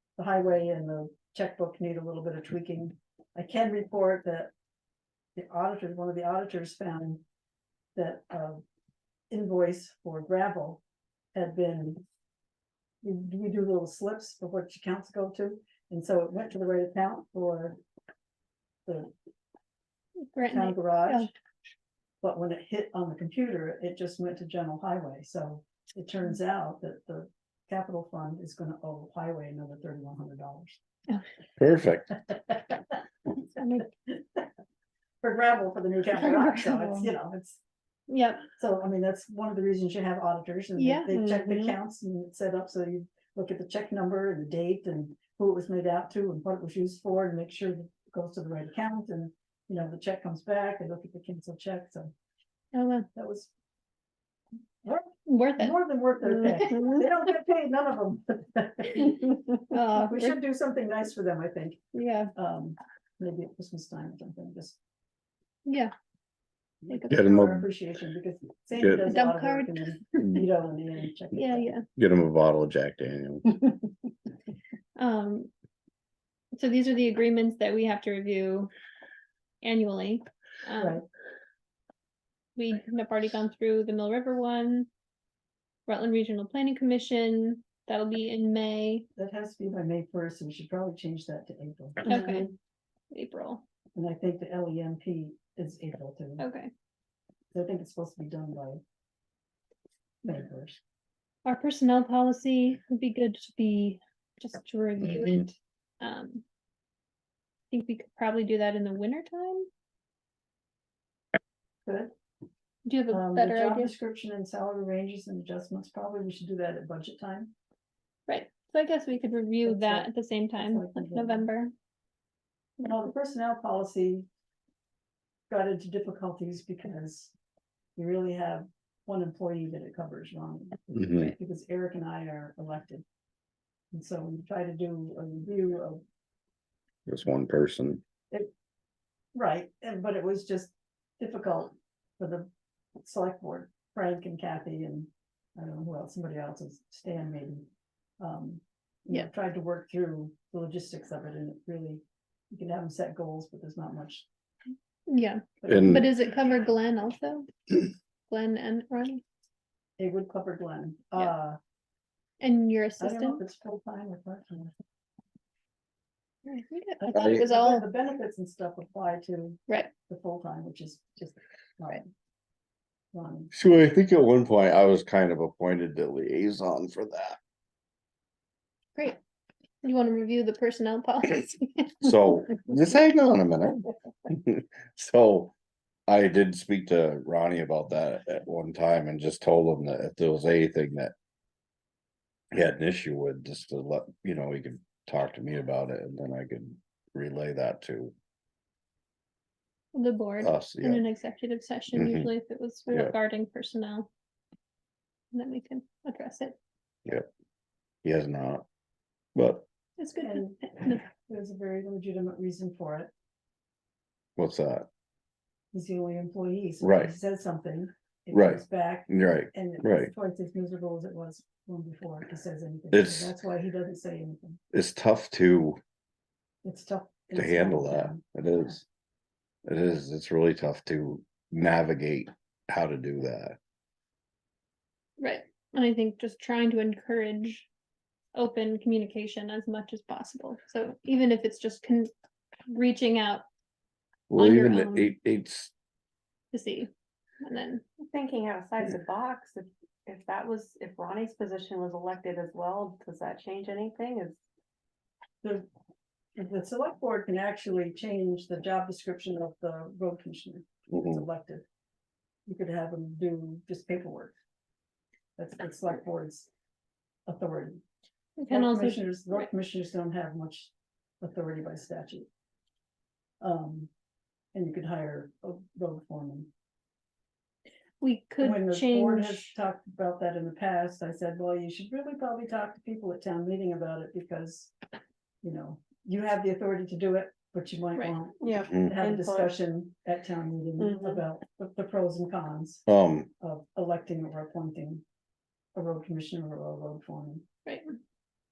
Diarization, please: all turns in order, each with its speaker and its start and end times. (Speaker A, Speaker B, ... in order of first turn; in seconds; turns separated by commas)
Speaker A: 0.2-4.5, Speaker A: 5.4-7.2, Speaker A: 8.0-8.6, Speaker A: 9.3-10.8, Speaker A: 11.3-12.0, Speaker A: 13.0-17.8, Speaker A: 18.9-19.1, Speaker B: 20.3-21.3, Speaker A: 20.4-21.3, Speaker A: 22.2-30.8, Speaker C: 31.6-32.1, Speaker A: 32.3-33.0, Speaker A: 33.6-34.5, Speaker A: 35.2-37.6, Speaker B: 36.2-37.1, Speaker B: 38.1-38.4, Speaker A: 38.6-52.1, Speaker B: 40.8-41.1, Speaker D: 41.1-41.8, Speaker B: 52.7-53.1, Speaker A: 53.1-53.5, Speaker A: 54.8-61.8, Speaker B: 55.3-57.1, Speaker B: 59.7-60.4, Speaker B: 61.9-62.3, Speaker A: 62.4-64.8, Speaker B: 65.7-65.9, Speaker A: 66.8-71.7, Speaker B: 66.9-67.2, Speaker C: 67.1-67.7, Speaker C: 68.8-69.0, Speaker B: 69.1-70.4, Speaker B: 71.3-71.8, Speaker C: 72.0-73.5, Speaker B: 75.0-75.5, Speaker B: 76.5-78.7, Speaker B: 79.6-81.0, Speaker A: 80.8-81.0, Speaker B: 82.6-84.9, Speaker B: 85.9-89.1, Speaker A: 89.2-92.2, Speaker B: 92.0-92.5, Speaker D: 92.1-92.5, Speaker B: 93.1-93.6, Speaker A: 94.0-96.5, Speaker B: 96.4-96.7, Speaker A: 97.5-98.8, Speaker A: 100.2-100.8, Speaker B: 101.5-106.4, Speaker B: 107.7-109.7, Speaker A: 111.9-112.1, Speaker B: 112.9-113.9, Speaker A: 113.1-117.5, Speaker B: 118.3-121.7, Speaker A: 119.7-121.5, Speaker A: 122.8-124.3, Speaker A: 125.5-127.3, Speaker A: 128.0-133.1, Speaker C: 130.9-131.3, Speaker A: 133.9-136.0, Speaker C: 137.1-138.0, Speaker A: 139.3-142.5, Speaker A: 143.0-147.7, Speaker A: 148.2-154.3, Speaker B: 155.1-159.2, Speaker A: 155.6-155.9, Speaker C: 155.7-156.1, Speaker A: 160.0-161.6, Speaker B: 162.4-163.4, Speaker A: 163.0-164.7, Speaker B: 166.4-167.9, Speaker A: 167.0-172.0, Speaker C: 167.1-167.4, Speaker A: 173.1-173.5, Speaker C: 173.5-177.4, Speaker B: 179.8-182.4, Speaker C: 182.0-185.5, Speaker C: 186.1-191.1, Speaker C: 192.5-198.1, Speaker B: 199.9-204.1, Speaker C: 200.4-201.0, Speaker C: 201.9-202.3, Speaker B: 205.3-206.6, Speaker C: 208.0-208.7, Speaker C: 209.4-209.7, Speaker B: 210.0-211.1, Speaker A: 210.2-213.1, Speaker C: 214.4-214.9, Speaker A: 215.7-224.6, Speaker C: 216.8-217.1, Speaker C: 218.3-220.1, Speaker C: 222.9-223.3, Speaker C: 224.7-225.8, Speaker A: 226.6-228.8, Speaker C: 227.4-228.8, Speaker C: 229.7-233.6, Speaker B: 235.2-237.7, Speaker B: 238.3-242.1, Speaker B: 242.7-243.5, Speaker C: 244.3-245.7, Speaker B: 244.3-245.1, Speaker B: 246.5-246.9, Speaker B: 247.4-247.8, Speaker D: 248.0-254.4, Speaker A: 256.4-261.6, Speaker C: 260.9-261.2, Speaker A: 262.5-264.4, Speaker A: 265.4-266.5, Speaker A: 267.3-267.8, Speaker B: 268.4-269.4, Speaker A: 268.5-272.3, Speaker A: 273.4-273.9, Speaker A: 274.5-276.5, Speaker B: 278.0-279.5, Speaker A: 278.4-284.7, Speaker A: 285.4-292.9, Speaker D: 288.4-289.5, Speaker C: 288.7-288.9, Speaker D: 290.8-291.2, Speaker C: 292.9-293.3, Speaker A: 293.4-295.0, Speaker A: 295.8-297.5